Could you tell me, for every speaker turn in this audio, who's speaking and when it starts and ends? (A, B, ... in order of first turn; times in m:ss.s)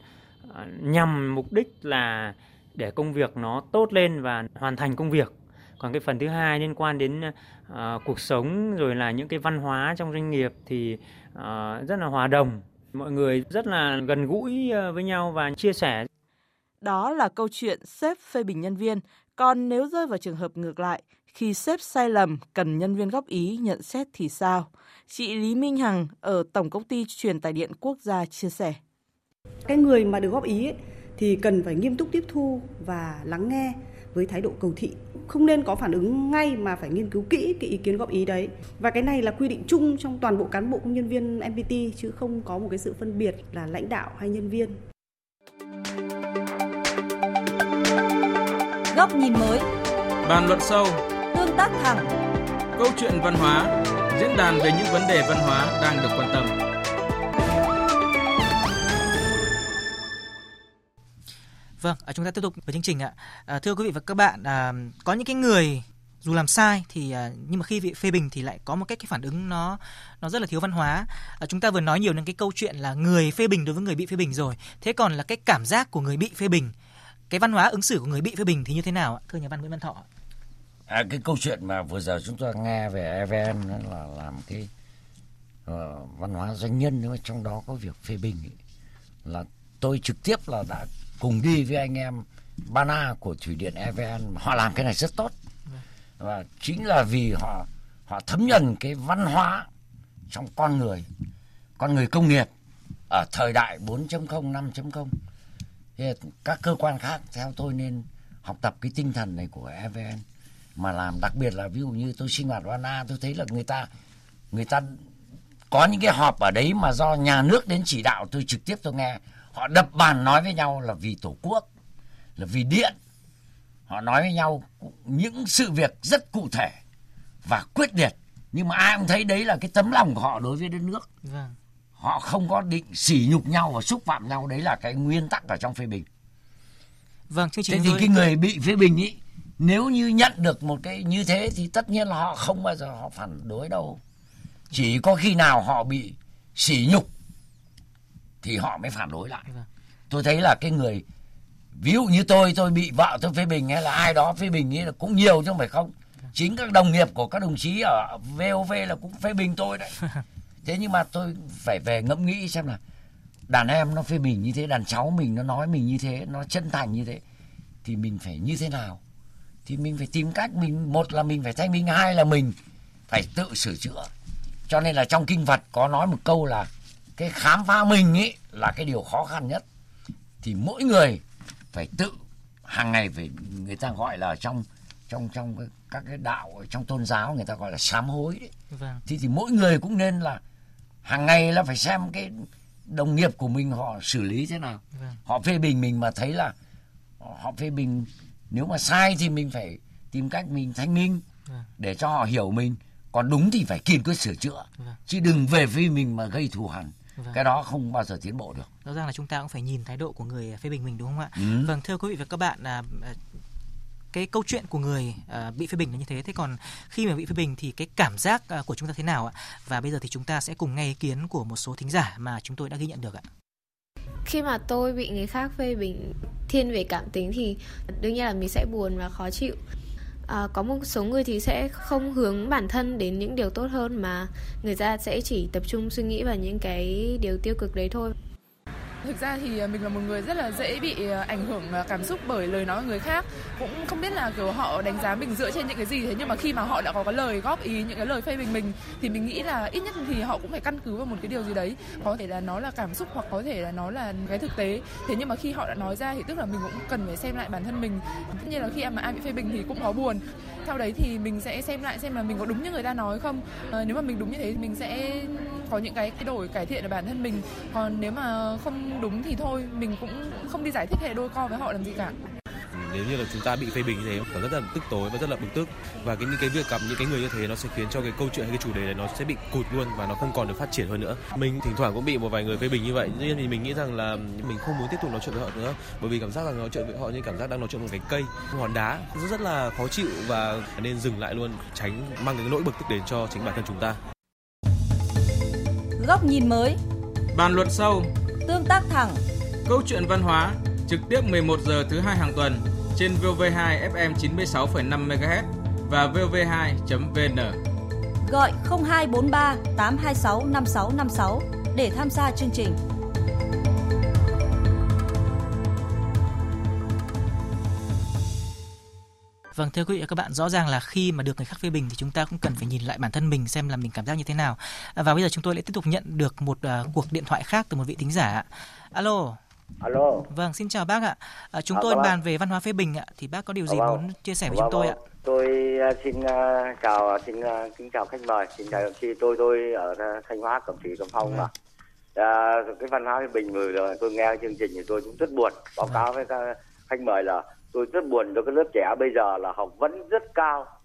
0:00.4-0:16.1 A
0:16.8-0:28.8 B
0:29.6-0:44.8 C
0:48.9-0:49.7 D
0:50.2-0:51.0 E
0:51.3-0:52.1 D
0:52.8-0:56.5 E
1:01.8-1:16.7 F
1:17.3-1:20.0 F
1:20.9-1:24.7 G
1:25.6-1:28.6 G
1:29.2-1:35.3 G
1:36.2-1:39.7 G
1:40.3-1:41.1 G
1:41.8-1:42.5 G
1:43.1-1:45.1 G
1:46.0-1:50.2 G
1:50.8-1:53.9 G
1:54.5-1:55.0 G
1:55.7-2:01.6 G
2:02.4-2:03.0 G
2:03.9-2:06.8 G
2:07.4-2:11.1 G
2:11.2-2:11.6 F
2:12.0-2:16.1 G
2:17.3-2:18.1 F
2:17.7-2:24.0 G
2:24.7-2:27.1 G
2:28.4-2:29.5 G
2:30.1-2:31.0 G
2:31.7-2:40.0 G
2:40.6-2:42.8 G
2:43.5-2:47.2 G
2:47.8-2:49.0 G
2:49.6-2:52.6 G
2:53.1-2:54.1 G
2:54.7-2:59.6 G
3:00.4-3:01.2 G
3:01.7-3:08.5 G
3:08.7-3:09.0 F
3:09.0-3:10.4 G
3:11.0-3:16.5 G
3:14.9-3:15.2 F
3:17.2-3:21.2 G
3:21.8-3:28.7 G
3:28.8-3:33.2 F
3:31.4-3:31.7 G
3:34.1-3:43.2 F
3:44.2-3:49.6 H
3:50.3-3:58.1 H
3:59.0-4:32.2 I
4:32.7-4:54.0 J
4:56.0-4:56.8 D
4:57.3-4:58.1 E
4:58.4-4:59.2 D
4:59.6-5:07.6 E
5:08.2-5:12.8 D
5:19.5-5:29.4 F
5:29.8-5:30.3 K
5:30.3-5:35.0 F
5:31.7-5:32.1 K
5:33.7-5:41.5 K
5:42.2-5:50.7 K